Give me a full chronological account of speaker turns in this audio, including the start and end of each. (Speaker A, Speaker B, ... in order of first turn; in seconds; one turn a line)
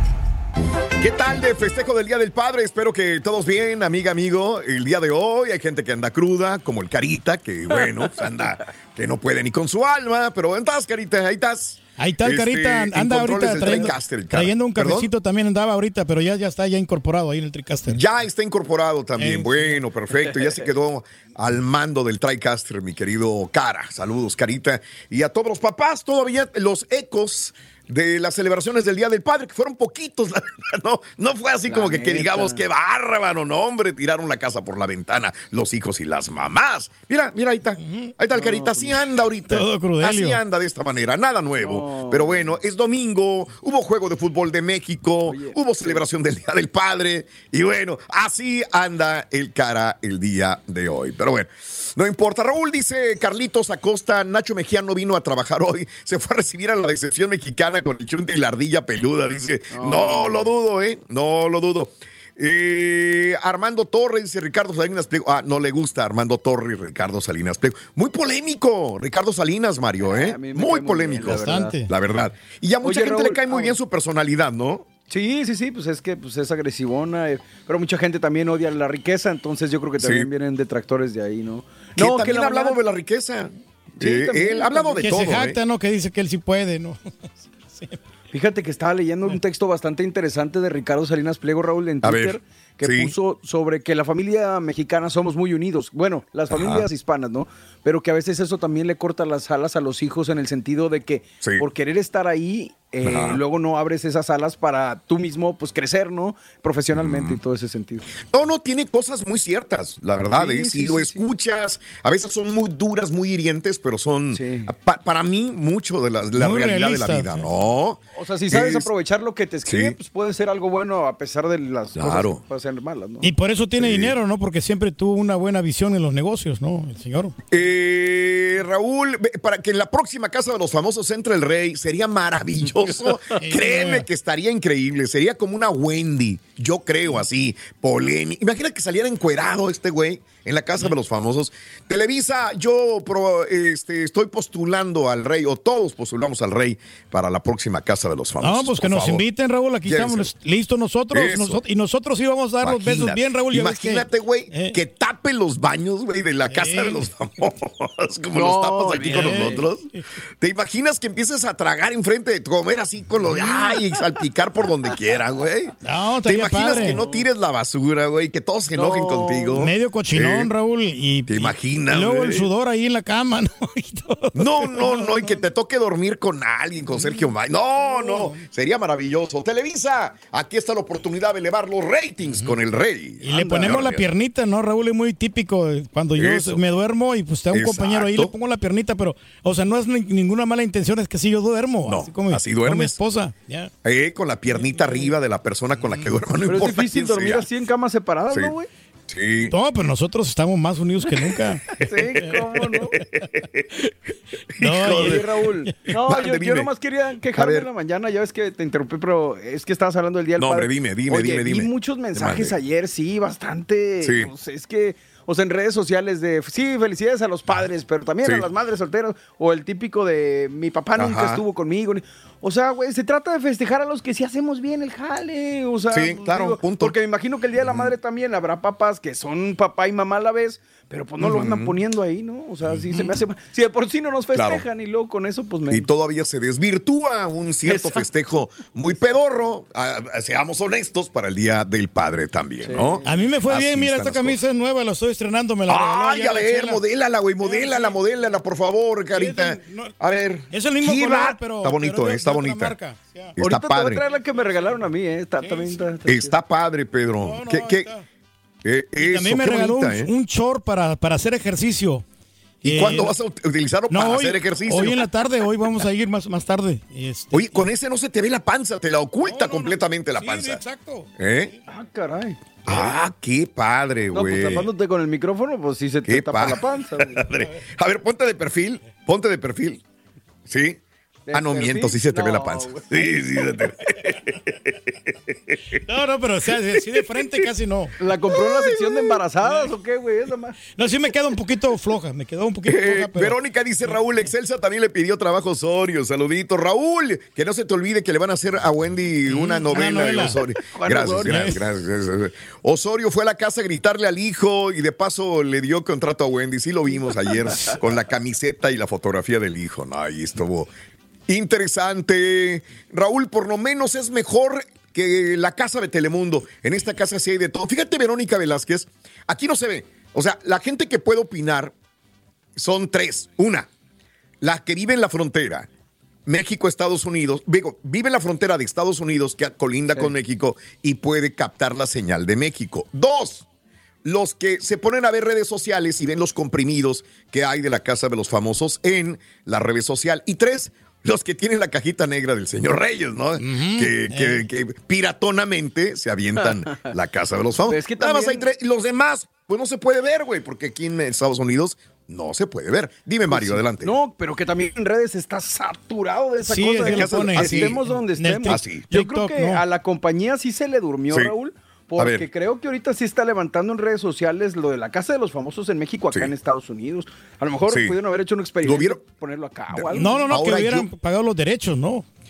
Speaker A: 1.0-15.1
Speaker B: 12.0-18.0
Speaker A: 17.9-74.9
Speaker B: 19.2-19.8
Speaker C: 31.7-32.6
Speaker C: 38.4-38.9
Speaker B: 39.5-40.4
Speaker C: 41.6-42.4
Speaker C: 45.3-46.0
Speaker C: 59.7-60.5
Speaker C: 70.1-71.8
Speaker B: 71.3-71.9
Speaker C: 72.8-73.8
Speaker C: 75.1-82.8
Speaker A: 80.0-80.3
Speaker A: 82.0-85.6
Speaker C: 84.0-85.4
Speaker B: 85.0-87.0
Speaker B: 87.7-88.0
Speaker C: 88.3-108.1
Speaker A: 92.0-93.1
Speaker A: 96.5-96.9
Speaker A: 103.0-103.4
Speaker A: 106.9-107.4
Speaker A: 108.2-118.9
Speaker C: 110.3-111.2
Speaker C: 114.3-114.7
Speaker B: 116.4-117.5
Speaker C: 118.1-123.3
Speaker A: 119.7-120.0
Speaker A: 122.0-122.4
Speaker B: 123.2-127.3
Speaker A: 123.8-124.2
Speaker A: 127.5-149.2
Speaker B: 133.4-134.1
Speaker B: 148.4-154.8
Speaker A: 149.8-150.3
Speaker A: 151.1-151.6
Speaker A: 152.6-159.8
Speaker B: 156.5-157.0
Speaker C: 158.3-159.7
Speaker B: 159.0-160.0
Speaker A: 160.4-170.5
Speaker B: 165.8-167.0
Speaker C: 166.7-167.2
Speaker C: 168.7-169.6
Speaker B: 169.5-175.2
Speaker A: 171.3-172.5
Speaker A: 174.3-184.1
Speaker B: 178.0-178.4
Speaker B: 183.2-193.7
Speaker A: 186.2-186.6
Speaker A: 187.5-188.3
Speaker A: 191.9-193.0
Speaker A: 193.8-197.5
Speaker C: 196.5-198.7
Speaker A: 199.1-199.5
Speaker B: 199.5-202.3
Speaker C: 201.7-203.0
Speaker A: 202.9-203.7
Speaker A: 204.5-205.3
Speaker B: 204.6-205.2
Speaker C: 204.8-235.9
Speaker A: 205.9-206.7
Speaker A: 207.3-207.7
Speaker A: 210.4-212.6
Speaker A: 214.0-214.3
Speaker A: 221.0-221.4
Speaker A: 225.9-226.9
Speaker A: 227.6-227.9
Speaker A: 231.2-231.8
Speaker A: 234.3-234.6
Speaker A: 235.7-244.4
Speaker C: 237.7-238.0
Speaker C: 242.6-243.2
Speaker B: 243.0-246.8
Speaker A: 245.7-252.8
Speaker B: 247.4-248.0
Speaker B: 249.2-249.9
Speaker B: 250.5-253.4
Speaker C: 253.4-256.3
Speaker A: 253.4-254.0
Speaker B: 255.4-255.8
Speaker A: 256.1-257.9
Speaker B: 257.2-258.0
Speaker A: 258.6-260.1
Speaker B: 259.0-262.0
Speaker B: 262.6-263.1
Speaker A: 262.6-265.1
Speaker B: 263.9-267.6
Speaker A: 267.3-270.6
Speaker B: 269.3-271.1
Speaker A: 271.2-271.5
Speaker C: 271.7-272.8
Speaker A: 272.7-274.7
Speaker C: 274.1-277.2
Speaker A: 276.1-279.8
Speaker A: 280.5-280.8
Speaker C: 281.3-283.4
Speaker A: 281.3-285.8
Speaker B: 285.8-287.9
Speaker A: 286.7-287.5
Speaker C: 288.0-290.6
Speaker A: 288.3-289.2
Speaker B: 290.6-293.4
Speaker A: 292.7-310.7
Speaker B: 299.3-300.4
Speaker C: 300.1-301.5
Speaker B: 301.2-301.6
Speaker A: 311.3-321.8
Speaker A: 322.6-323.7
Speaker A: 324.4-325.7
Speaker A: 326.3-333.4
Speaker A: 334.0-353.9
Speaker B: 343.4-344.4
Speaker C: 347.7-348.5
Speaker C: 353.3-370.4
Speaker B: 356.4-359.6
Speaker A: 356.8-357.8
Speaker A: 358.5-358.9
Speaker A: 362.0-362.3
Speaker A: 367.7-368.0
Speaker A: 368.6-369.0
Speaker A: 369.7-370.9
Speaker B: 369.9-372.1